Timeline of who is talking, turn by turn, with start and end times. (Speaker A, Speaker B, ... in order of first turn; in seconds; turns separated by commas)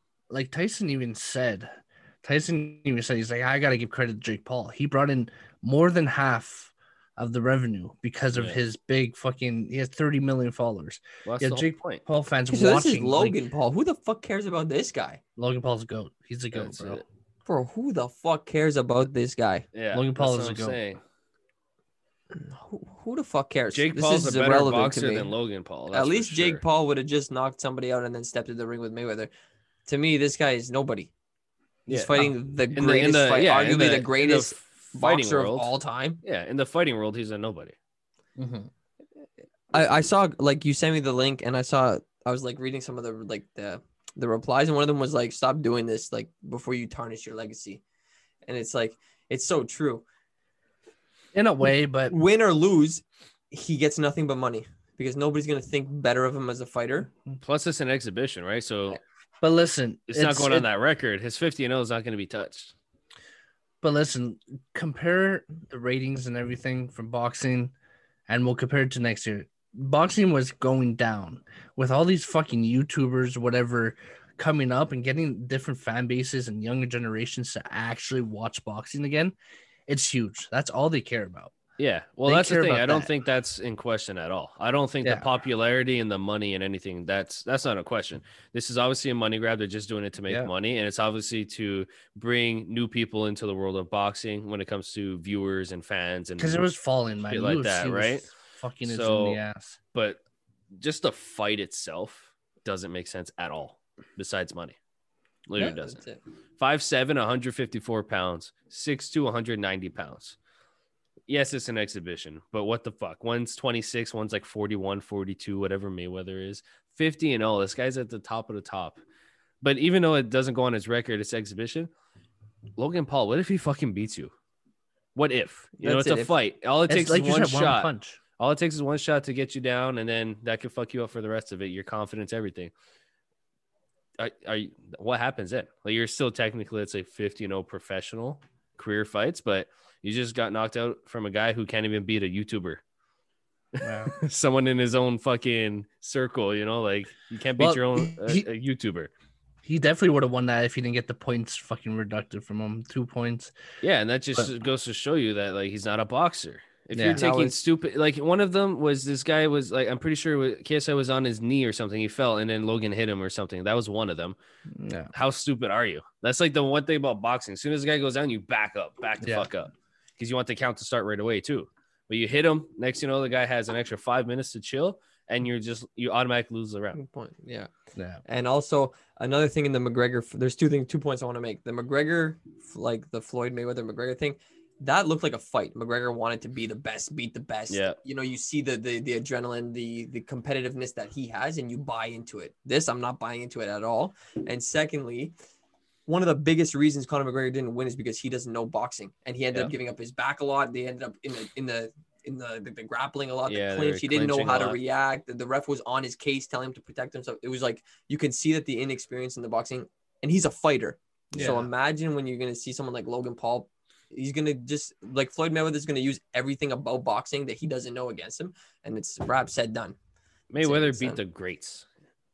Speaker A: 0.3-1.7, Speaker A: 2.2-13.4, Speaker B: 11.2-12.0, Speaker C: 12.5-15.2, Speaker A: 15.4-17.0, Speaker B: 16.6-17.0, Speaker C: 17.5-19.6, Speaker B: 19.7-21.0, Speaker A: 19.9-20.8, Speaker C: 22.3-25.3, Speaker B: 23.7-26.6, Speaker C: 25.9-29.3, Speaker C: 29.9-31.1, Speaker B: 31.9-37.8, Speaker C: 31.9-36.2, Speaker A: 38.4-38.7, Speaker C: 39.7-47.8, Speaker C: 48.5-50.0, Speaker A: 51.3-52.1, Speaker C: 52.1-57.1, Speaker B: 57.4-59.0, Speaker A: 59.4-60.7, Speaker B: 60.1-62.7, Speaker A: 63.8-67.7, Speaker A: 68.3-79.3, Speaker A: 79.9-81.5, Speaker B: 81.8-96.6, Speaker A: 82.3-83.1, Speaker A: 96.4-99.8, Speaker B: 97.2-98.3, Speaker B: 98.8-99.4, Speaker B: 99.9-100.2, Speaker B: 100.8-104.8, Speaker B: 105.5-106.0, Speaker C: 105.6-106.2, Speaker B: 106.6-110.4, Speaker B: 111.3-119.0, Speaker B: 119.6-121.9, Speaker B: 122.8-124.3, Speaker B: 125.2-132.7, Speaker C: 125.8-126.3, Speaker A: 126.9-128.2, Speaker B: 134.2-142.8, Speaker B: 143.8-149.1, Speaker A: 143.8-144.2, Speaker A: 147.6-148.5, Speaker A: 149.7-153.5, Speaker B: 153.8-164.4, Speaker A: 156.9-157.2, Speaker C: 157.1-157.6, Speaker A: 164.7-165.1, Speaker B: 165.1-177.0, Speaker A: 169.2-169.5, Speaker C: 176.9-177.7, Speaker A: 178.0-178.2, Speaker C: 178.2-195.3, Speaker B: 187.7-188.0, Speaker C: 196.1-220.0, Speaker B: 203.5-204.8, Speaker A: 211.3-211.7, Speaker B: 220.5-221.9, Speaker C: 220.6-221.2